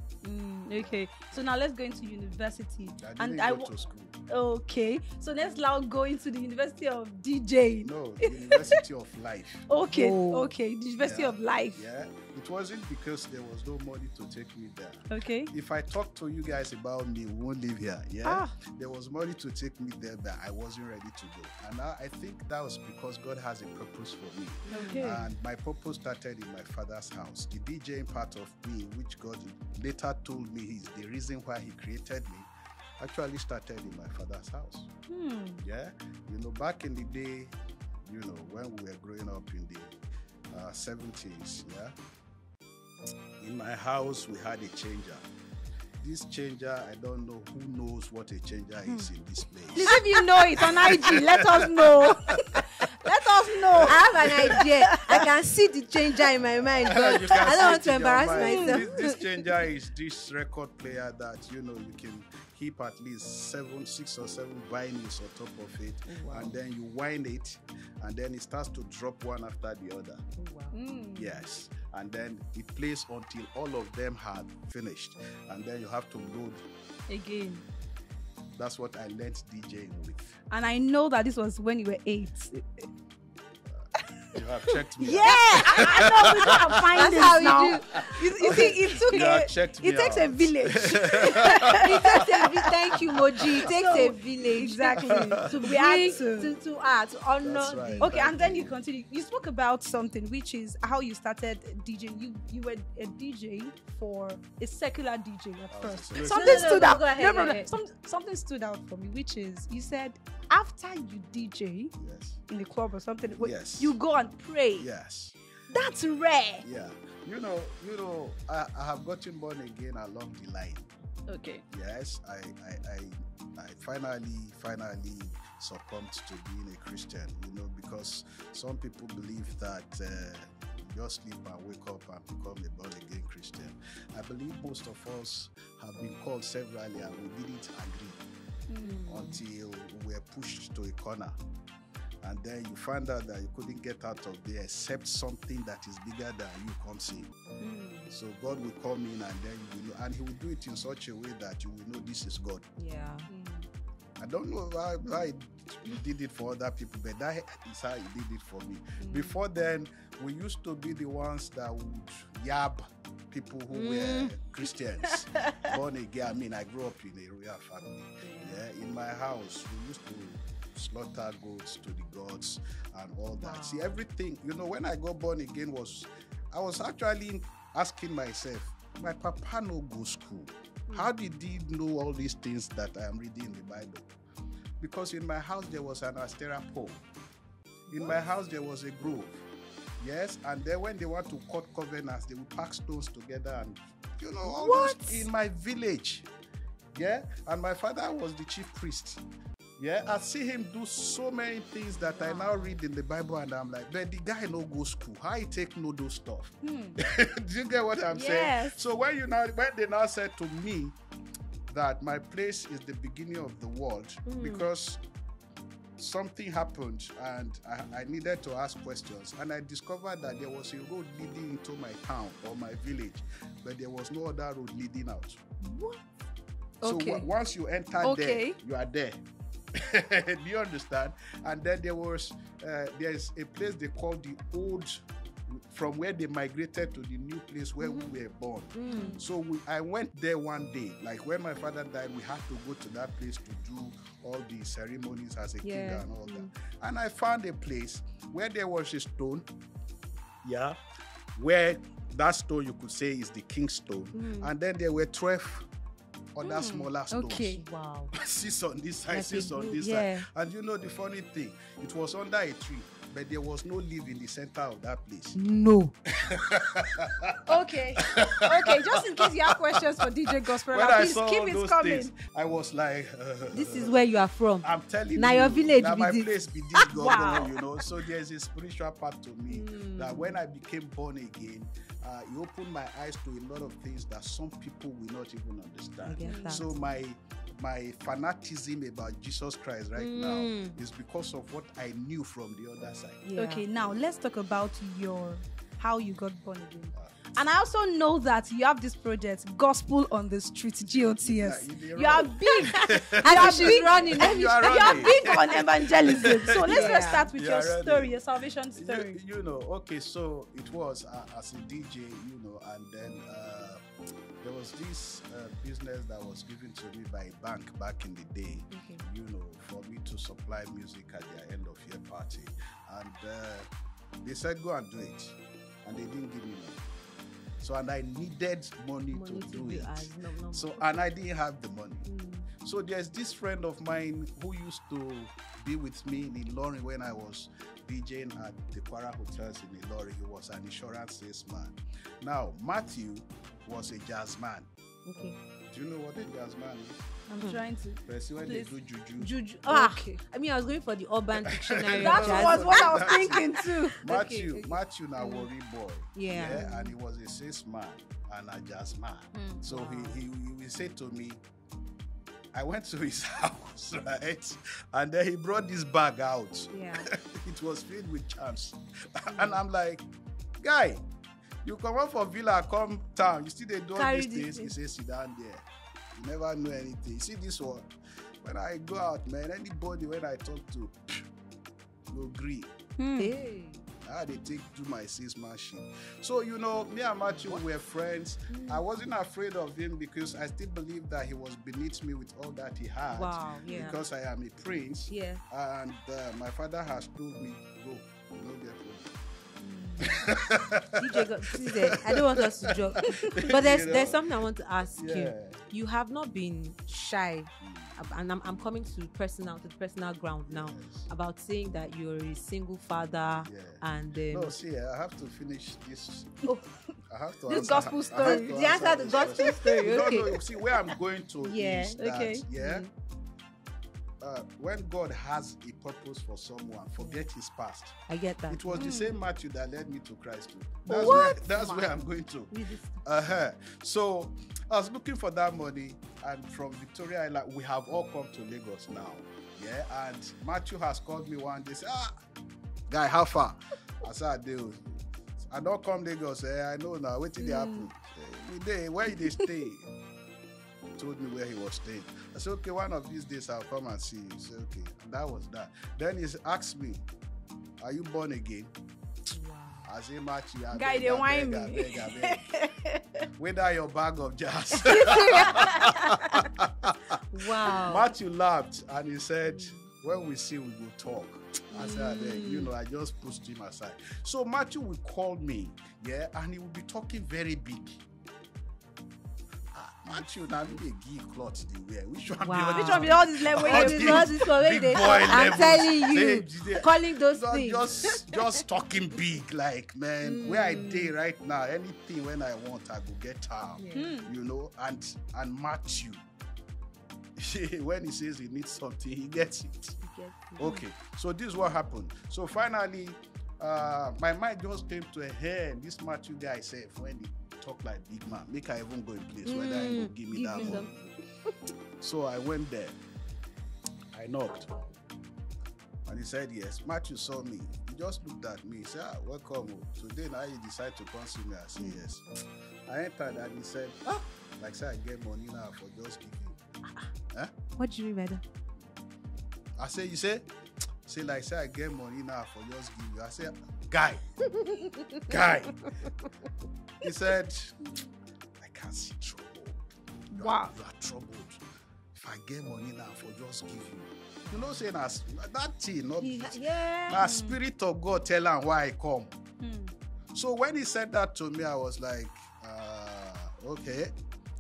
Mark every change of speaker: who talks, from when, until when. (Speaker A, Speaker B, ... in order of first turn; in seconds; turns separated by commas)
Speaker A: 0.2-3.7, Speaker B: 0.7-1.5, Speaker B: 3.0-4.2, Speaker A: 4.3-8.8, Speaker B: 7.8-9.7, Speaker A: 9.7-11.9, Speaker C: 9.9-10.5, Speaker B: 11.0-34.9, Speaker A: 15.1-15.5, Speaker A: 18.2-18.5, Speaker C: 24.7-25.1, Speaker A: 24.7-25.3, Speaker A: 35.1-35.6, Speaker B: 35.6-39.9, Speaker B: 40.5-41.9, Speaker B: 43.4-45.2, Speaker B: 46.0-50.0, Speaker A: 49.8-55.2, Speaker B: 50.6-52.6, Speaker B: 53.1-54.6, Speaker C: 53.9-59.2, Speaker B: 56.9-70.2, Speaker A: 56.9-57.7, Speaker A: 58.3-58.9, Speaker C: 66.1-66.5, Speaker C: 70.4-70.8, Speaker A: 70.7-71.4, Speaker B: 71.2-76.6, Speaker A: 77.1-77.6, Speaker B: 78.6-80.3, Speaker A: 80.5-82.9, Speaker B: 83.7-92.2, Speaker A: 84.0-84.4, Speaker A: 85.0-92.6, Speaker C: 85.2-86.3, Speaker C: 87.0-89.0, Speaker C: 91.4-98.2, Speaker A: 93.4-96.5, Speaker B: 95.1-96.2, Speaker B: 97.4-98.8, Speaker A: 98.0-111.9, Speaker B: 105.7-106.9, Speaker C: 106.2-107.7, Speaker B: 112.0-112.4, Speaker A: 112.5-114.9, Speaker B: 113.4-114.0, Speaker B: 114.8-115.3, Speaker A: 115.7-116.7, Speaker B: 116.6-120.9, Speaker A: 121.3-121.6, Speaker B: 121.7-138.2, Speaker A: 138.7-139.0, Speaker C: 138.8-139.4, Speaker B: 139.1-141.4, Speaker B: 142.2-147.3, Speaker A: 147.6-148.1, Speaker B: 148.1-152.6, Speaker C: 152.8-153.3, Speaker A: 153.3-153.7, Speaker B: 154.2-184.1, Speaker A: 159.0-159.4, Speaker C: 163.7-164.3, Speaker C: 168.2-168.6, Speaker C: 173.4-174.0, Speaker B: 184.8-187.1, Speaker B: 187.9-189.4, Speaker B: 190.0-196.3, Speaker A: 194.6-195.2, Speaker B: 196.9-199.2, Speaker B: 199.8-211.0, Speaker C: 202.0-202.8, Speaker A: 206.6-207.0, Speaker A: 208.1-208.8, Speaker B: 211.7-215.0, Speaker C: 214.3-214.7, Speaker B: 216.0-225.4, Speaker C: 225.6-226.0, Speaker A: 226.8-227.3, Speaker B: 226.8-229.2, Speaker A: 228.0-228.6, Speaker B: 229.8-249.5, Speaker C: 237.8-238.1, Speaker C: 238.8-239.2, Speaker A: 238.9-239.2, Speaker C: 245.6-246.5, Speaker B: 250.4-250.8, Speaker B: 251.4-255.7, Speaker C: 254.2-254.5, Speaker B: 256.4-257.6, Speaker A: 256.4-257.6, Speaker C: 257.6-258.1, Speaker B: 258.1-265.4, Speaker C: 259.1-260.3, Speaker C: 265.4-265.9, Speaker B: 266.2-274.1, Speaker A: 267.5-272.1, Speaker C: 273.5-274.6, Speaker B: 274.6-293.2, Speaker C: 275.2-277.5, Speaker A: 276.9-277.5, Speaker C: 279.5-280.4, Speaker C: 286.1-286.9, Speaker A: 286.3-286.7, Speaker C: 290.0-290.8, Speaker C: 293.2-293.6, Speaker A: 293.4-309.2, Speaker B: 296.9-297.3, Speaker B: 300.9-308.2, Speaker C: 302.7-305.6, Speaker C: 306.6-307.3, Speaker B: 308.8-313.8, Speaker B: 314.4-323.7, Speaker C: 318.7-319.0, Speaker B: 324.2-326.8, Speaker B: 327.6-332.1, Speaker C: 329.1-330.9, Speaker C: 332.1-332.5, Speaker B: 332.6-344.7, Speaker C: 345.1-345.4, Speaker B: 345.7-347.1, Speaker A: 347.3-348.7, Speaker B: 348.1-349.3, Speaker C: 349.2-353.5, Speaker A: 349.7-350.2, Speaker B: 351.4-361.4, Speaker A: 351.9-354.0, Speaker C: 354.1-355.5, Speaker C: 356.1-356.9, Speaker A: 359.3-359.6, Speaker C: 359.7-360.2, Speaker B: 362.5-370.1, Speaker C: 366.7-367.1, Speaker C: 369.3-369.6, Speaker B: 370.6-371.0, Speaker B: 371.6-377.9, Speaker C: 373.9-374.8, Speaker B: 378.4-381.2, Speaker B: 382.1-382.7, Speaker A: 383.0-383.3, Speaker C: 383.2-383.9, Speaker B: 384.0-399.1, Speaker C: 387.3-387.6, Speaker C: 388.5-388.8, Speaker C: 393.1-394.0, Speaker C: 395.1-395.4, Speaker A: 399.6-400.3, Speaker B: 400.0-404.2, Speaker C: 400.9-414.6, Speaker B: 405.0-405.6, Speaker B: 407.6-408.0, Speaker B: 410.5-411.1, Speaker B: 413.5-416.4, Speaker B: 417.1-422.9, Speaker A: 417.5-418.6, Speaker C: 418.2-420.4, Speaker C: 421.4-422.0, Speaker A: 422.0-422.4, Speaker C: 422.6-422.9, Speaker B: 424.2-427.9, Speaker C: 427.0-427.3, Speaker C: 428.1-428.9, Speaker B: 428.5-442.1, Speaker A: 428.8-429.2, Speaker A: 430.9-431.9, Speaker C: 430.9-431.8, Speaker C: 432.5-433.0, Speaker B: 442.9-449.9, Speaker A: 447.4-447.9, Speaker B: 451.0-457.1, Speaker B: 457.8-458.7, Speaker C: 459.3-459.9, Speaker B: 459.9-462.4, Speaker A: 460.7-463.2, Speaker B: 463.4-478.0, Speaker A: 464.8-466.2, Speaker C: 464.8-466.2, Speaker C: 467.3-468.1, Speaker C: 469.4-469.9, Speaker C: 471.7-472.7, Speaker B: 479.7-496.2, Speaker C: 482.4-488.1, Speaker A: 482.7-484.4, Speaker A: 485.0-485.6, Speaker C: 490.2-491.1, Speaker C: 493.8-494.1, Speaker A: 493.9-494.3, Speaker B: 497.4-500.0, Speaker C: 500.0-500.8, Speaker B: 500.6-510.9, Speaker C: 509.4-511.1, Speaker A: 510.6-510.9, Speaker B: 512.0-513.0, Speaker B: 514.1-514.7, Speaker B: 516.1-522.2, Speaker B: 522.9-526.6, Speaker C: 527.8-528.4, Speaker B: 529.8-530.5, Speaker B: 531.1-534.2, Speaker C: 534.6-535.2, Speaker B: 535.3-535.9, Speaker B: 537.0-537.8, Speaker B: 538.6-541.6, Speaker A: 540.3-540.7, Speaker B: 542.1-549.3, Speaker C: 544.5-544.8, Speaker C: 546.2-547.2, Speaker A: 547.1-547.6, Speaker A: 549.6-549.9, Speaker B: 550.3-554.1